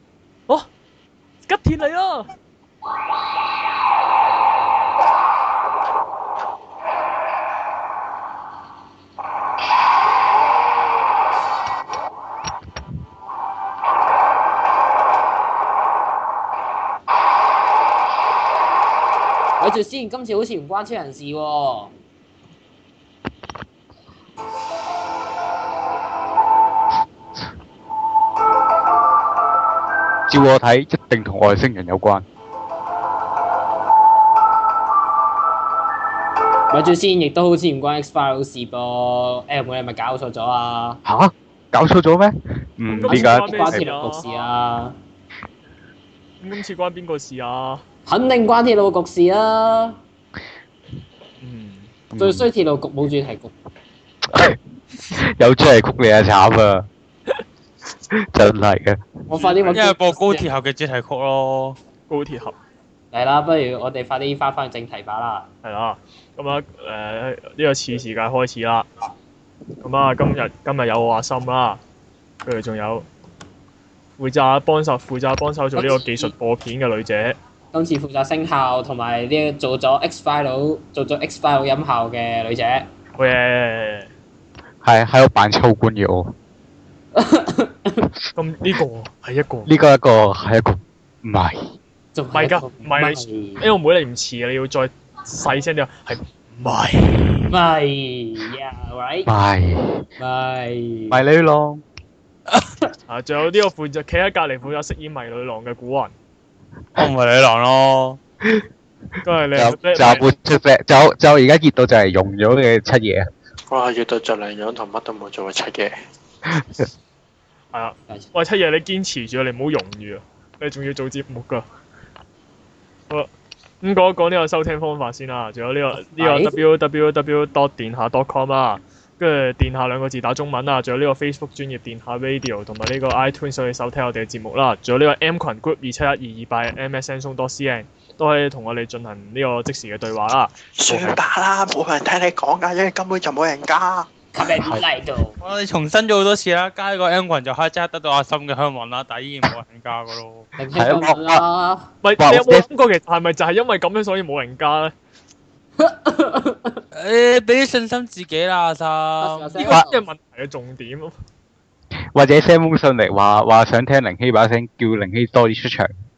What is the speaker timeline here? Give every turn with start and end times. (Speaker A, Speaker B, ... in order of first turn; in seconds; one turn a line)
Speaker A: 1.5-2.3
Speaker B: 19.6-21.9
Speaker C: 30.3-32.2
Speaker B: 36.7-41.0
Speaker C: 41.0-44.2
Speaker B: 42.9-45.0
Speaker A: 43.0-44.4
Speaker A: 46.4-47.8
Speaker B: 48.1-50.0
Speaker A: 51.4-51.9
Speaker C: 52.1-52.5
Speaker B: 52.2-53.5
Speaker C: 54.3-54.6
Speaker C: 55.1-56.9
Speaker C: 58.1-59.1
Speaker B: 59.3-60.5
Speaker A: 59.4-59.8
Speaker D: 59.7-61.8
Speaker A: 62.1-62.6
Speaker B: 63.1-65.5
Speaker A: 65.6-68.9
Speaker A: 69.8-71.8
Speaker A: 72.5-73.1
Speaker A: 74.2-77.4
Speaker B: 75.8-76.3
Speaker B: 77.7-82.9
Speaker A: 83.2-84.1
Speaker C: 84.8-86.3
Speaker B: 87.2-88.1
Speaker A: 88.4-89.7
Speaker C: 89.7-91.6
Speaker B: 92.2-93.7
Speaker A: 92.3-97.5
Speaker B: 97.5-99.3
Speaker C: 99.3-100.0
Speaker B: 100.2-101.2
Speaker C: 101.1-101.8
Speaker A: 103.1-106.1
Speaker D: 107.0-108.2
Speaker A: 109.2-110.3
Speaker C: 109.5-113.3
Speaker E: 113.7-116.0
Speaker A: 117.7-121.6
Speaker A: 123.8-141.2
Speaker B: 126.1-126.6
Speaker E: 140.8-144.1
Speaker B: 144.3-145.4
Speaker D: 145.4-150.5
Speaker B: 150.6-151.9
Speaker C: 150.8-151.4
Speaker A: 152.0-154.9
Speaker C: 152.2-152.7
Speaker B: 155.8-156.8
Speaker D: 156.9-159.6
Speaker B: 159.2-160.1
Speaker A: 159.6-161.1
Speaker C: 162.1-165.9